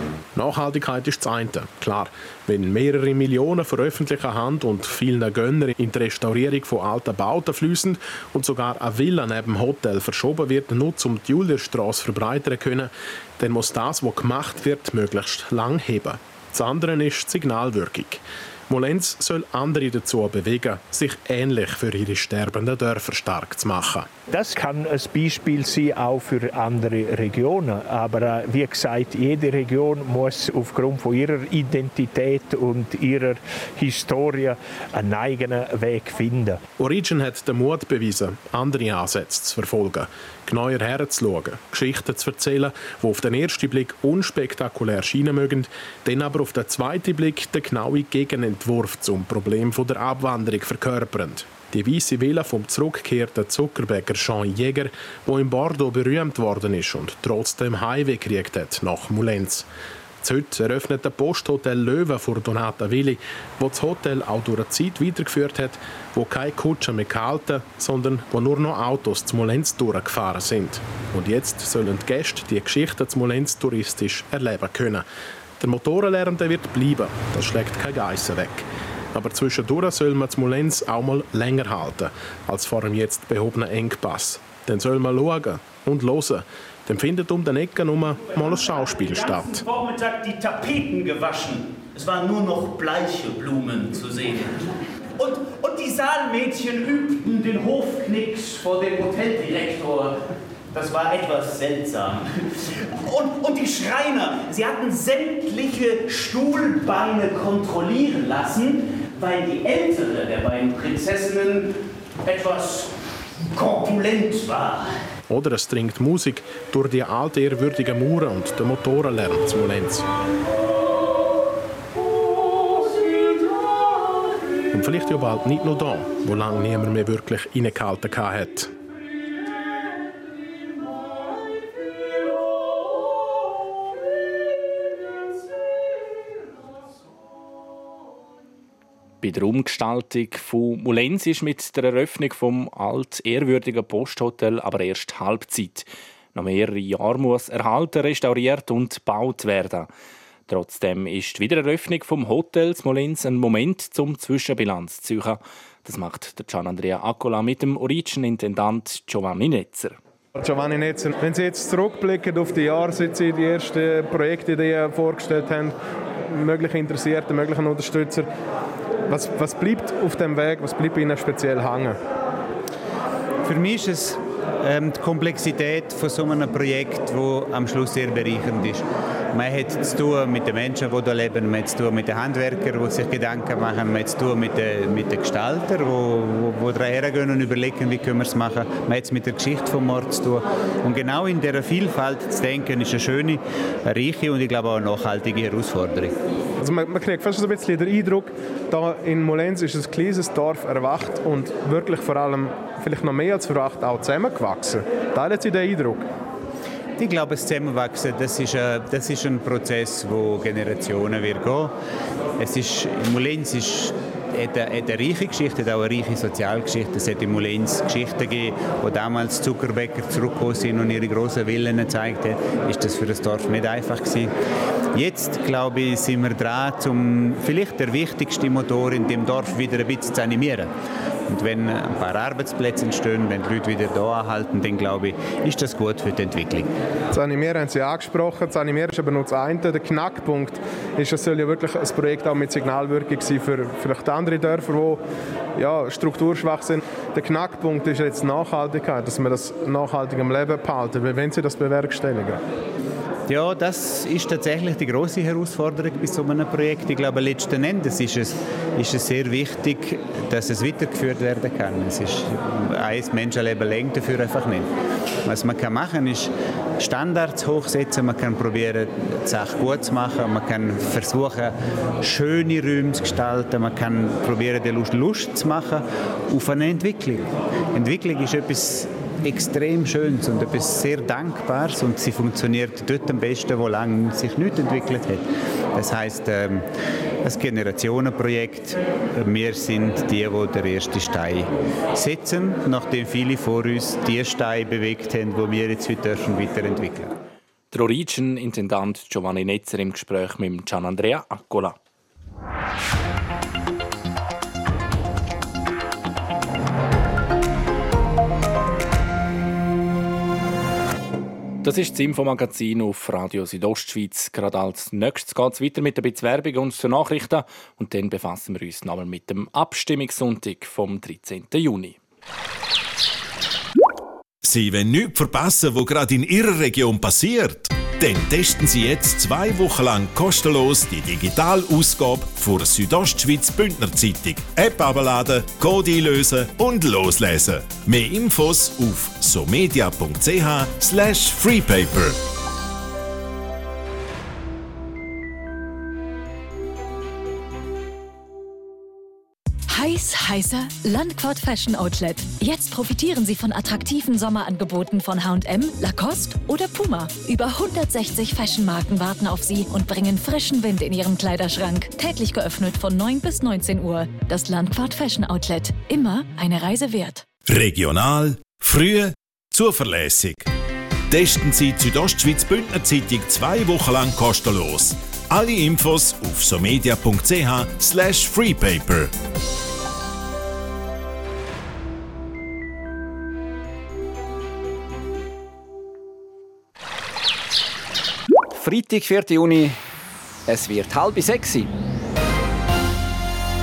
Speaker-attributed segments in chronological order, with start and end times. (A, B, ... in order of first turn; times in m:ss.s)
0:00.3-0:24.1 A
0:24.3-0:36.6 B
0:36.8-0:59.7 A
1:00.2-1:15.0 A
1:15.6-1:29.6 A
1:28.3-1:34.6 C
1:35.2-1:40.2 C
1:40.7-1:42.3 C
1:42.9-1:51.7 C
1:52.2-1:52.9 C
1:53.5-1:54.9 C
1:55.3-2:00.1 A
2:04.7-2:08.7 A
2:19.2-2:29.9 D
2:30.5-2:40.0 D
2:40.4-2:45.8 E
2:46.3-2:48.3 E
2:49.1-2:52.0 E
2:53.4-3:16.2 F
3:16.6-3:26.0 E
3:27.0-3:31.7 F
3:32.4-3:44.3 F
3:44.9-3:50.7 F
3:51.3-3:56.7 F
3:57.1-4:05.0 E
4:05.6-4:12.4 E
4:13.3-4:24.7 F
4:25.2-4:46.6 F
4:47.2-4:57.1 F
4:57.7-5:01.7 D
5:11.6-5:22.0 D
5:24.4-5:42.2 G
5:49.7-6:07.2 H
6:07.5-6:10.5 G
6:11.1-6:19.1 G
6:28.5-6:29.8 I
6:30.5-6:31.7 I